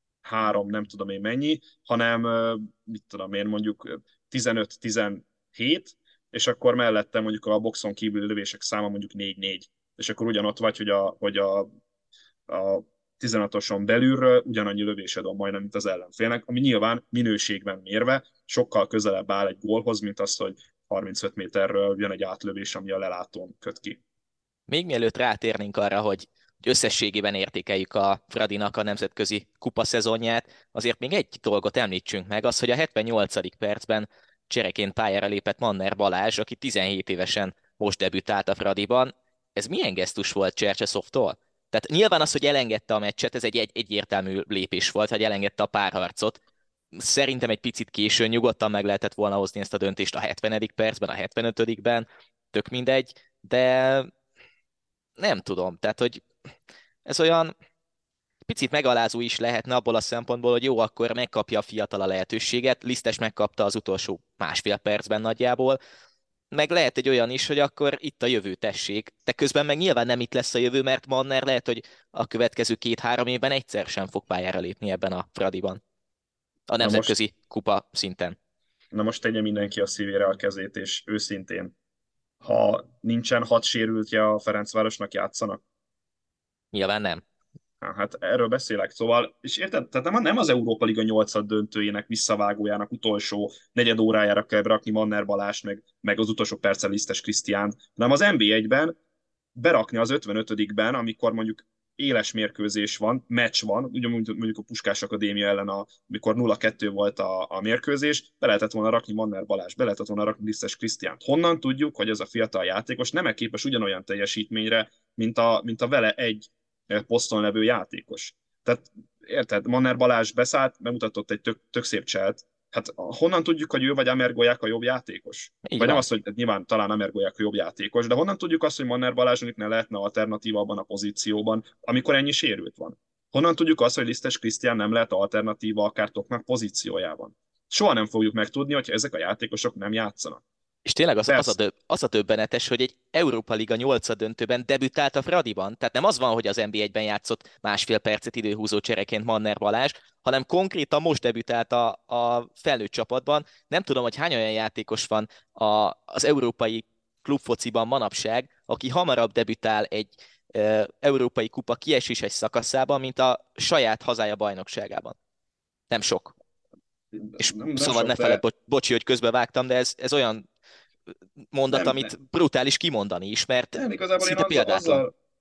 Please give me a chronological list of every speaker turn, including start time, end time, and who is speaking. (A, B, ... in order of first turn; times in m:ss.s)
0:00.2-0:11.7 A
0:12.5-0:24.0 A
0:24.7-0:46.4 B
0:46.9-0:54.1 B
0:55.2-0:56.2 B
0:57.0-0:57.5 B
0:58.4-1:05.8 B
1:06.5-1:15.8 B
1:16.7-1:18.4 B
1:16.8-1:17.1 A
1:18.9-1:21.7 A
1:22.4-1:25.6 A
1:26.7-1:27.2 B
1:27.8-1:38.9 A
1:39.5-2:20.4 A
2:05.6-2:06.0 B
2:20.8-2:45.2 B
2:21.3-2:21.5 A
2:45.9-2:46.3 B
2:47.1-2:48.4 A
2:47.4-2:50.4 B
2:51.5-2:55.0 B
2:51.7-2:52.1 A
2:53.7-2:55.1 A